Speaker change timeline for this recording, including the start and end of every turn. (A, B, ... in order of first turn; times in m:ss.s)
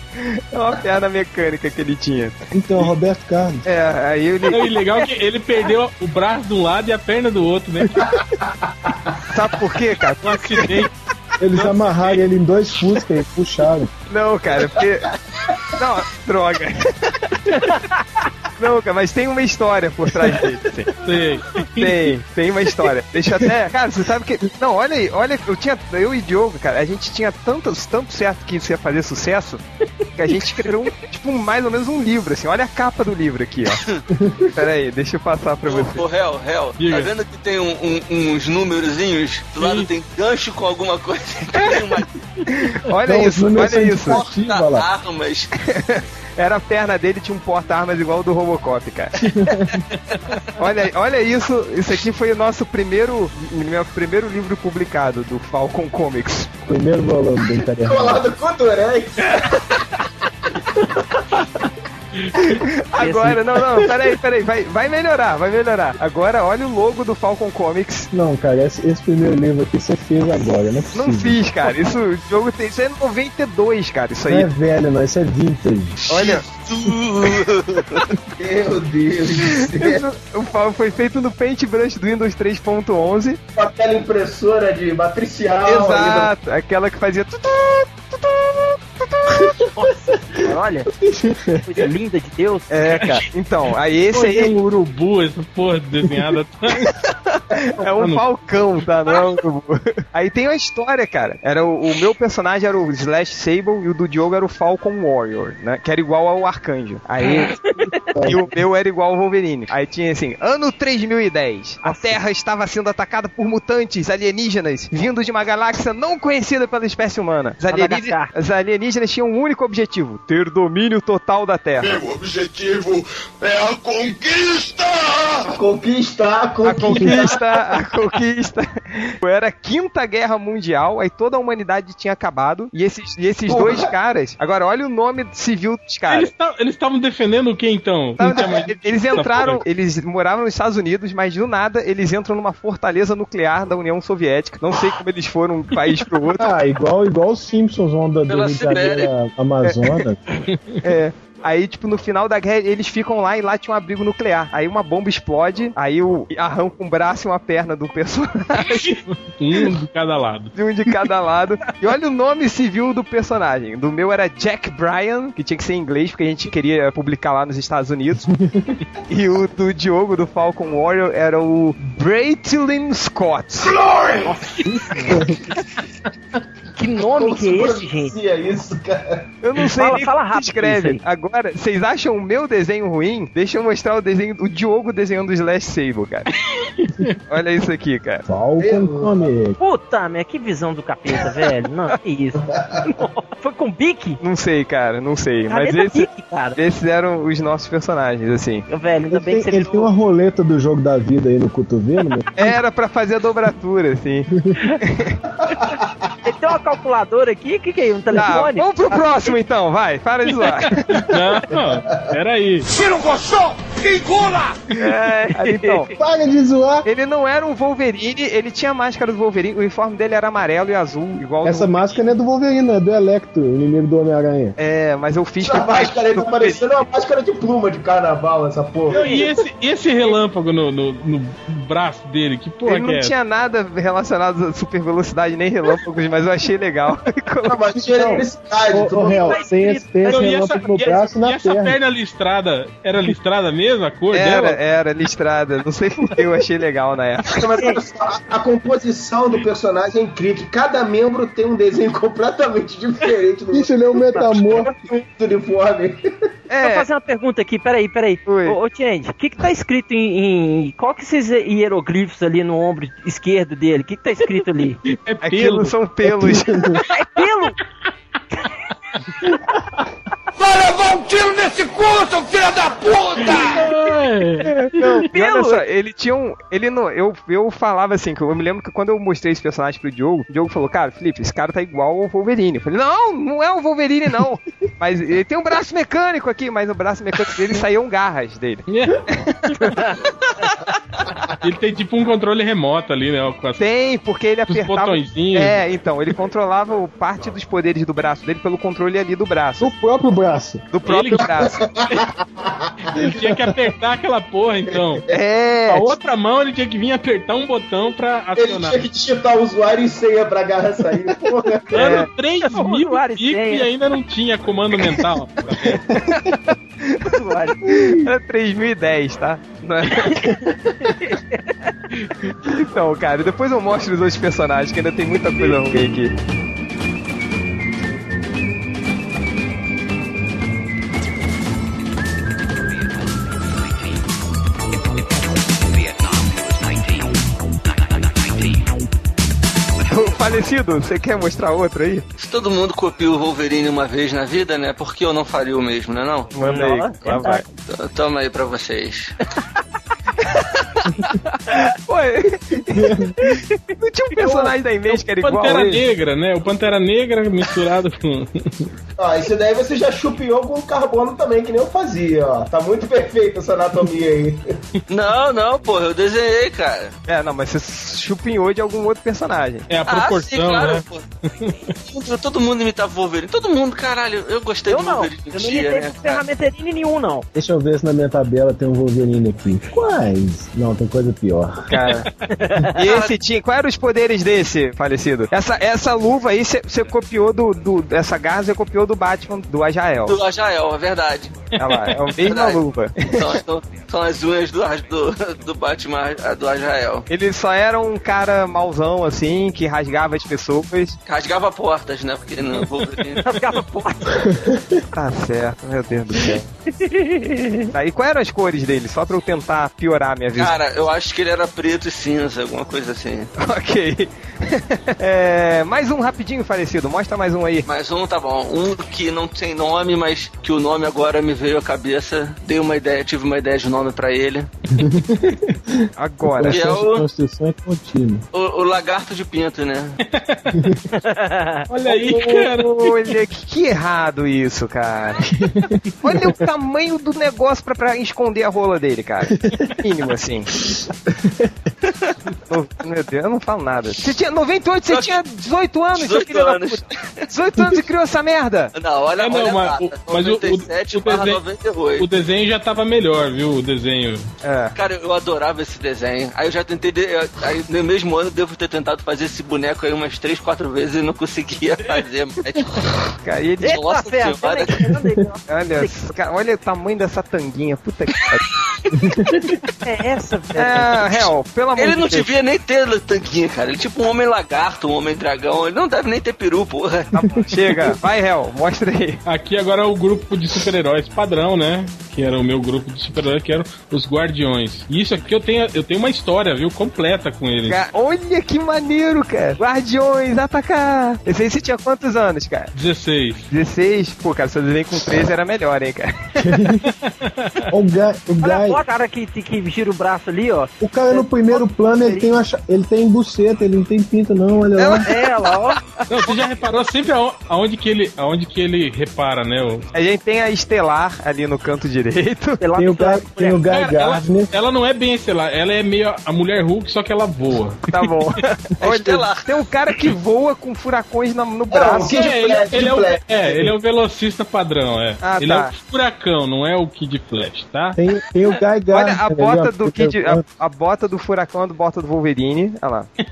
0:00.2-0:02.4 A
0:02.5-0:03.6 B
0:03.6-0:04.8 A
0:04.5-0:08.2 C
0:08.0-0:09.2 D
0:09.3-0:10.9 A
0:10.2-0:10.9 C
0:11.4-0:13.9 B
0:11.5-0:12.2 C
0:14.1-0:15.1 A
0:15.8-0:17.8 A
0:17.6-0:18.0 E
0:18.6-0:20.9 A
0:21.0-0:22.1 C
0:21.8-0:29.6 A
0:30.2-0:33.8 A
0:34.1-0:34.5 B
0:34.5-0:36.0 A
0:35.7-0:42.1 F
0:36.8-0:37.1 C
0:39.6-0:39.9 C
0:42.5-0:44.2 A
0:43.0-0:44.8 B
0:44.0-0:45.5 F
0:45.7-0:49.1 A
0:49.2-0:49.8 B
0:50.6-0:56.5 A
0:56.7-0:58.2 B
0:57.8-0:59.6 D
1:02.5-1:08.1 A
1:03.0-1:03.4 E
1:08.1-1:11.4 B
1:10.9-1:14.5 A
1:14.3-1:16.0 B
1:16.1-1:16.4 A
1:16.1-1:18.1 F
1:18.4-1:20.0 D
1:19.6-1:23.4 A
1:23.6-1:26.3 D
1:25.6-1:29.6 A
1:29.8-1:30.9 E
1:30.9-1:31.9 B
1:31.6-1:32.7 E
1:32.7-1:34.5 A
1:32.9-1:33.2 C
1:34.1-1:36.9 C
1:37.1-1:47.5 A
1:38.0-1:38.2 C
1:47.2-1:47.9 E
1:48.1-1:48.5 B
1:48.2-2:02.0 A
1:51.8-1:52.2 E
1:57.7-1:58.3 E
2:01.8-2:05.5 G
2:05.5-2:07.4 D
2:06.6-2:16.3 A
2:13.5-2:13.9 D
2:16.1-2:19.6 C
2:18.2-2:26.5 A
2:26.4-2:30.2 B
2:28.3-2:29.1 F
2:30.5-2:30.8 C
2:30.8-2:39.0 A
2:38.6-2:40.5 C
2:40.5-2:48.3 A
2:48.3-2:48.7 B
2:49.1-2:53.7 A
2:54.2-2:55.2 E
2:56.8-2:58.1 E
2:57.0-2:59.2 D
2:59.4-3:06.3 A
2:59.7-3:01.0 E
3:07.3-3:08.2 A
3:08.3-3:09.6 B
3:08.6-3:09.2 D
3:09.6-3:14.2 E
3:12.4-3:12.9 D
3:14.2-3:18.6 A
3:15.5-3:16.6 E
3:18.7-3:19.9 E
3:19.1-3:22.3 B
3:22.4-3:24.3 A
3:24.8-3:25.2 A
3:25.4-3:26.1 D
3:26.2-3:29.1 E
3:28.1-3:31.2 A
3:30.3-3:32.7 C
3:31.7-3:32.1 D
3:32.7-3:34.6 G
3:34.8-3:35.9 E
3:35.4-3:35.9 A
3:36.0-3:36.9 B
3:36.8-3:42.0 A
3:41.4-3:44.6 B
3:44.6-3:46.6 A
3:45.4-3:49.1 D
3:48.9-3:53.1 C
3:48.9-3:49.3 E
3:52.6-3:57.6 A
3:57.4-3:59.4 D
3:57.8-4:01.8 B
3:59.0-4:00.3 E
4:00.0-4:04.6 C
4:04.1-4:07.6 A
4:07.4-4:16.0 D
4:13.5-4:14.7 B
4:16.5-4:16.9 A
4:16.6-4:24.8 E
4:18.2-4:18.6 A
4:24.9-4:25.7 C
4:25.2-4:26.8 A
4:26.0-4:26.8 B
4:26.9-4:27.6 E
4:30.4-4:33.7 G
4:33.5-4:35.0 C
4:34.4-4:50.1 A
4:35.1-4:35.6 E
4:48.7-4:49.0 C
4:51.4-4:53.6 C
4:53.6-4:59.7 A
4:54.5-4:55.6 C
4:59.6-5:00.6 B
5:00.7-5:01.6 A
5:00.8-5:02.0 C
5:01.3-5:02.7 D
5:02.8-5:05.0 C
5:05.1-5:05.9 A
5:05.7-5:08.8 C
5:08.4-5:11.7 D
5:11.7-5:12.1 A
5:11.7-5:15.8 C
5:12.5-5:13.7 E
5:15.9-5:17.1 A
5:17.1-5:17.6 E
5:17.6-5:20.4 A
5:20.0-5:21.7 E
5:22.4-5:26.1 A
5:39.8-5:42.0 A
5:42.2-5:46.3 F
5:46.4-5:47.4 A
5:46.4-5:47.4 E
5:47.6-5:49.1 F
5:51.2-5:55.8 A
5:52.7-5:53.4 B
5:54.9-5:58.7 C
5:59.0-6:04.4 D
6:04.9-6:06.9 F
6:07.1-6:09.7 A
6:09.7-6:11.5 C
6:09.9-6:11.0 F
6:11.9-6:16.2 F
6:14.7-6:17.2 E
6:17.3-6:21.8 B
6:21.7-6:22.1 A
6:22.3-6:22.8 E
6:22.8-6:30.2 A
6:22.8-6:23.1 F
6:30.1-6:31.5 F
6:31.6-6:33.4 A
6:32.2-6:32.6 F
6:33.1-6:37.1 F
6:37.1-6:41.0 A
6:41.0-6:43.2 F
6:43.2-6:44.2 E
6:44.2-6:44.8 B
6:44.9-6:46.5 A
6:46.8-6:47.7 E
6:47.7-6:50.6 A
6:50.4-6:53.3 F
6:53.4-6:57.6 A
6:57.6-7:04.5 F
7:04.8-7:08.2 B
7:06.0-7:06.7 A
7:06.5-7:07.0 F
7:08.3-7:10.0 F
7:10.0-7:10.6 C
7:10.5-7:10.8 B
7:10.9-7:11.6 E
7:11.7-7:13.2 C
7:11.9-7:15.2 A
7:15.3-7:16.3 B
7:16.0-7:20.5 A
7:19.3-7:19.7 B
7:20.6-7:21.5 B
7:21.9-7:22.2 F
7:22.5-7:28.7 A
7:24.9-7:25.2 F
7:25.9-7:27.2 F
7:28.7-7:32.1 F
7:29.2-7:31.4 C
7:32.0-7:34.3 C
7:34.4-7:34.7 A
7:34.7-7:42.7 F
7:43.2-7:43.8 A
7:43.6-7:46.1 E
7:43.7-7:44.7 F
7:45.5-7:48.4 A
7:48.9-7:49.5 B
7:49.8-7:50.9 E
7:50.6-7:52.3 A
7:51.0-7:57.1 F
7:57.1-7:59.2 A
7:59.2-8:07.8 C
8:07.7-8:12.7 A
8:12.7-8:13.5 C
8:13.5-8:16.5 A
8:16.4-8:16.9 B
8:16.8-8:17.7 C
8:17.7-8:18.8 B
8:18.4-8:22.3 E
8:20.8-8:25.1 B
8:24.8-8:26.4 A
8:25.0-8:25.8 E
8:26.1-8:29.9 C
8:29.9-8:32.6 A
8:32.6-8:33.6 E
8:32.8-8:34.5 B
8:33.7-8:38.2 C
8:37.9-8:42.3 A
8:38.8-8:39.5 F
8:41.7-8:43.7 D
8:42.1-8:48.0 C
8:45.2-8:45.7 A
8:48.0-8:50.4 B
8:48.9-8:53.1 A